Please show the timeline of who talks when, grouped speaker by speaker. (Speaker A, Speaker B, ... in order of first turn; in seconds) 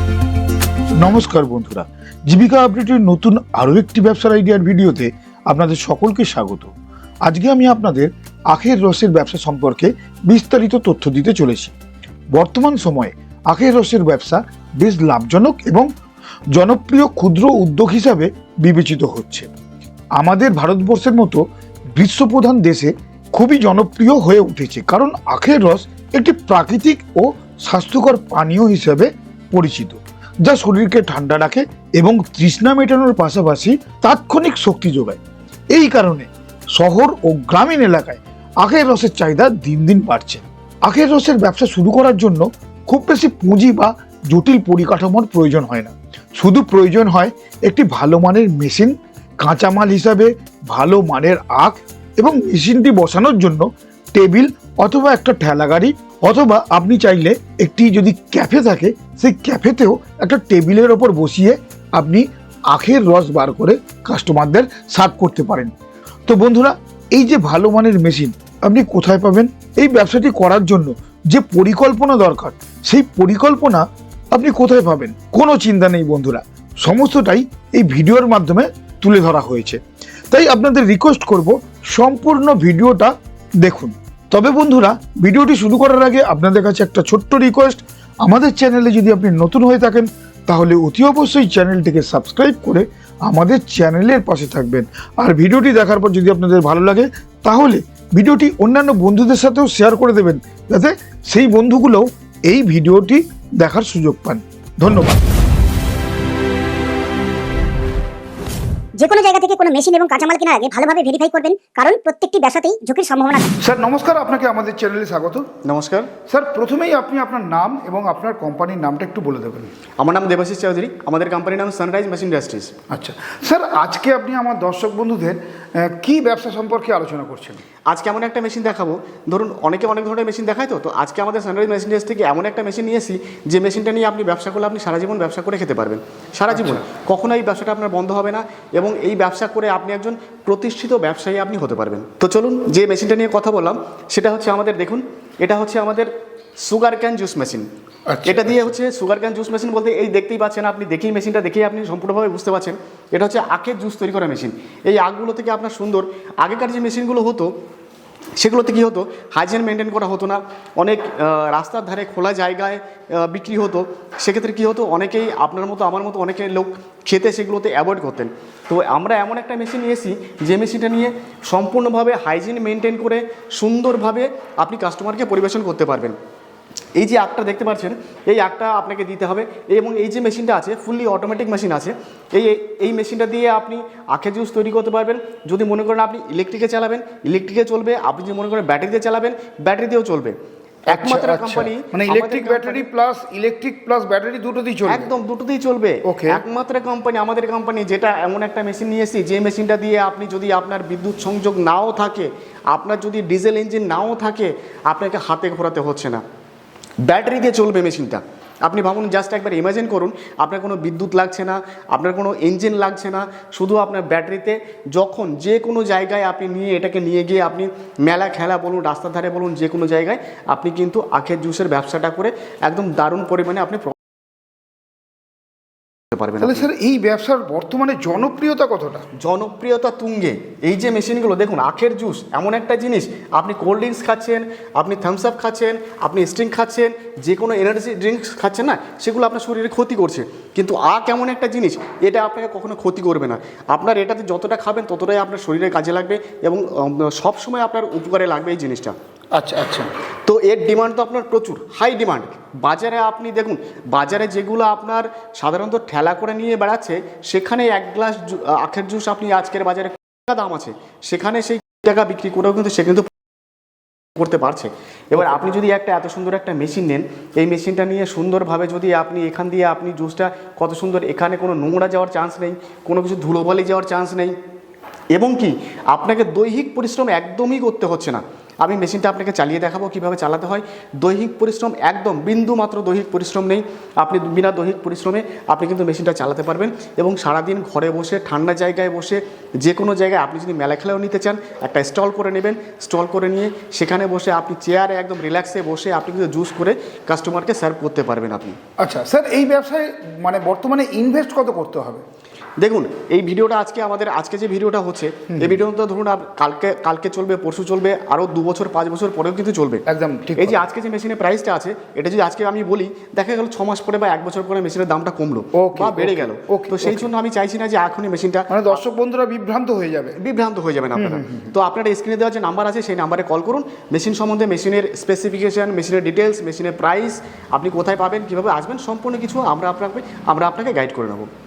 Speaker A: 1.0-6.7, 7.2-11.7, 12.3-15.9, 16.5-19.5, 20.2-21.4, 21.9-35.2, 35.7-65.7, 66.3-105.1, 113.6-115.5, 116.3-119.7, 122.9-127.6, 136.5-136.8, 148.1-148.6, 190.9-195.1, 196.1-196.4, 226.4-229.1, 249.3-249.9, 298.8-302.0, 305.3-305.6, 309.9-310.6, 315.6-317.1, 318.5-320.2, 320.9-321.5
Speaker B: 109.0-113.5
Speaker C: 115.6-116.1, 120.0-122.7, 127.9-146.1, 146.6-147.7, 148.2-157.5, 158.4-176.2, 176.9-190.3, 190.9-192.9, 194.9-206.2, 207.0-223.9, 226.1-226.7, 229.2-248.9, 250.2-263.1, 264.1-274.4, 275.1-298.6, 302.6-309.8, 310.4-318.8, 320.2-331.3